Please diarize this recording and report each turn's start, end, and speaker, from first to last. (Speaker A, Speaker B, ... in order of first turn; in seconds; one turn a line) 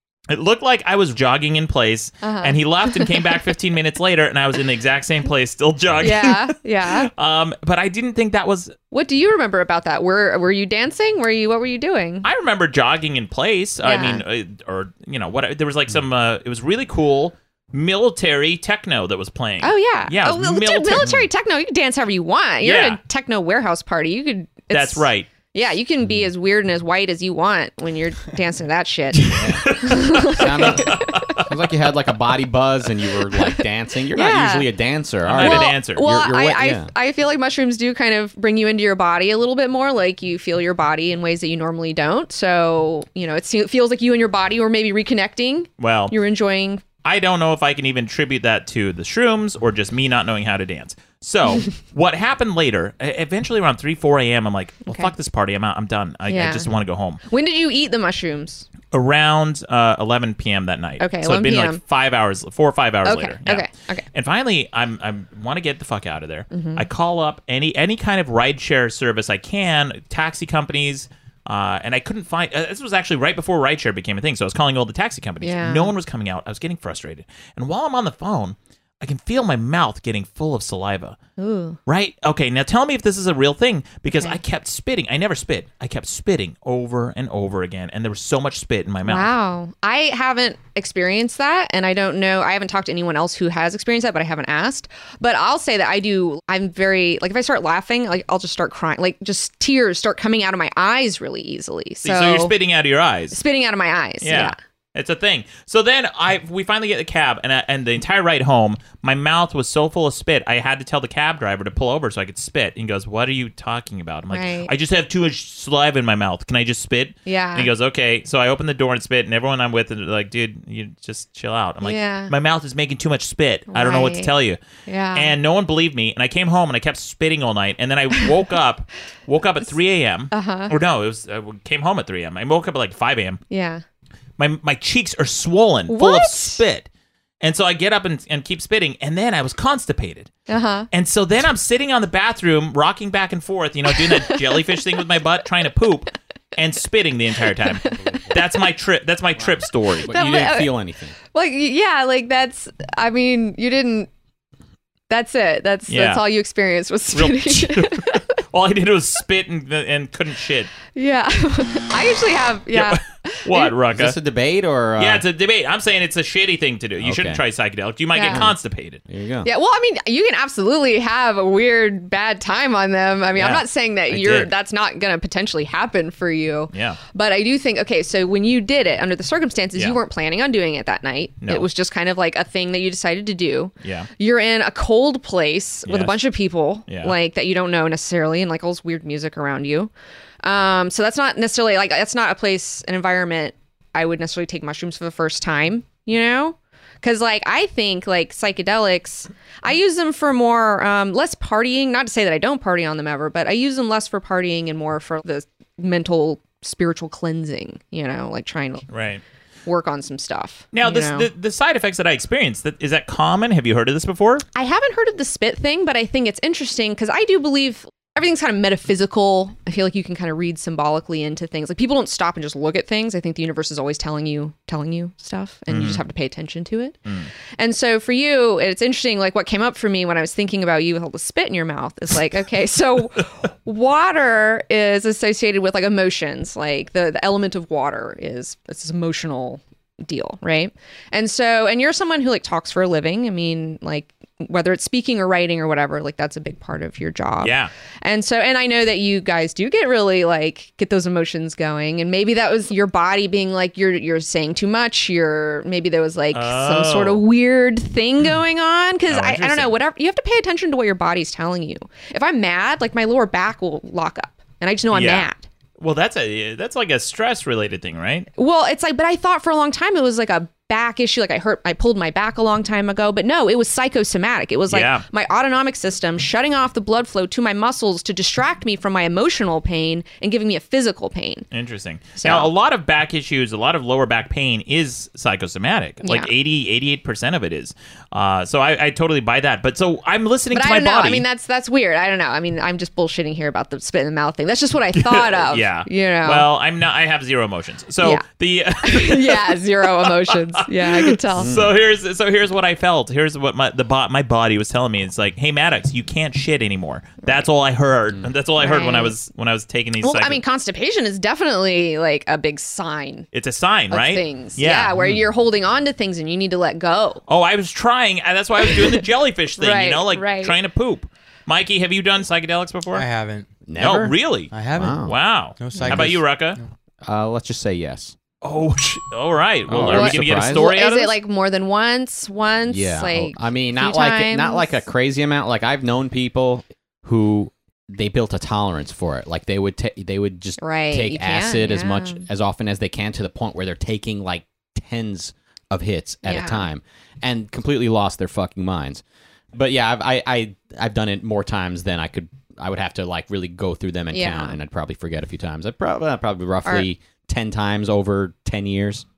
Speaker A: 0.3-8.8
Speaker B: 2.2-3.2
Speaker B: 6.0-7.1
Speaker B: 8.9-12.3
Speaker A: 12.2-21.1
Speaker B: 13.8-14.2
Speaker B: 19.6-31.4
Speaker C: 21.0-21.2
Speaker A: 22.6-23.0
Speaker A: 24.7-25.3
Speaker C: 26.0-26.3
Speaker C: 29.3-29.7
Speaker A: 29.3-31.4
Speaker C: 30.3-36.9
Speaker B: 34.1-34.7
Speaker A: 35.3-36.0
Speaker B: 35.4-46.9
Speaker A: 45.8-46.1
Speaker A: 47.0-57.2
Speaker B: 56.3-56.7
Speaker B: 57.3-58.7
Speaker A: 58.9-81.2
Speaker B: 61.0-61.8
Speaker B: 63.0-64.0
Speaker B: 66.5-66.9
Speaker B: 75.4-75.9
Speaker B: 81.4-81.8
Speaker A: 81.9-89.3
Speaker B: 89.0-102.5
Speaker A: 102.0-103.4
Speaker B: 103.3-104.6
Speaker A: 104.2-124.6
Speaker B: 114.3-114.7
Speaker B: 117.3-117.7
Speaker B: 121.8-122.3
Speaker B: 123.7-124.3
Speaker B: 124.9-125.3
Speaker A: 125.1-133.4
Speaker B: 130.3-130.7
Speaker B: 133.5-133.8
Speaker A: 134.4-136.9
Speaker B: 135.9-136.6
Speaker A: 137.4-140.3
Speaker B: 140.5-140.9
Speaker A: 140.9-150.1
Speaker B: 143.9-144.7
Speaker B: 147.6-148.4
Speaker C: 149.4-151.2
Speaker B: 150.1-150.8
Speaker B: 151.3-154.1
Speaker B: 155.1-158.2
Speaker A: 155.9-156.2
Speaker A: 157.1-160.7
Speaker B: 160.9-163.7
Speaker A: 162.7-164.2
Speaker C: 163.9-165.2
Speaker A: 165.0-169.0
Speaker C: 167.0-167.4
Speaker B: 168.1-168.5
Speaker C: 168.3-168.6
Speaker C: 169.1-169.5
Speaker B: 169.4-189.9
Speaker A: 173.3-174.5
Speaker A: 176.7-177.0
Speaker A: 183.8-184.1
Speaker A: 185.9-186.2
Speaker A: 186.9-187.1
Speaker B: 190.4-208.9
Speaker A: 208.9-209.2
Speaker B: 209.7-211.3
Speaker A: 210.7-214.4
Speaker B: 214.6-227.0
Speaker A: 225.7-226.0
Speaker B: 227.6-265.4
Speaker A: 247.4-247.7
Speaker A: 256.3-257.2
Speaker A: 259.1-259.7
Speaker A: 264.9-268.3
Speaker B: 268.4-281.5
Speaker A: 274.7-275.1
Speaker A: 281.5-291.2
Speaker B: 282.2-282.5
Speaker B: 286.0-286.3
Speaker B: 290.5-296.4
Speaker A: 294.9-310.4
Speaker B: 298.8-301.5
Speaker C: 301.4-301.7
Speaker B: 308.6-309.1
Speaker B: 310.0-313.3
Speaker A: 313.3-314.9
Speaker B: 313.9-317.2
Speaker C: 315.0-315.3
Speaker A: 317.3-323.1
Speaker B: 318.6-319.0
Speaker B: 319.6-320.6
Speaker D: 322.9-323.5
Speaker C: 323.7-324.1
Speaker A: 323.8-324.5
Speaker D: 324.5-325.0
Speaker C: 324.7-325.1
Speaker A: 325.0-326.6
Speaker D: 325.6-326.7
Speaker C: 325.8-326.1
Speaker C: 327.0-328.1
Speaker A: 328.4-331.2
Speaker C: 329.7-330.6
Speaker B: 329.9-334.8
Speaker C: 332.7-349.0
Speaker B: 340.6-342.2
Speaker B: 346.2-346.7
Speaker C: 349.5-359.0
Speaker B: 354.1-354.6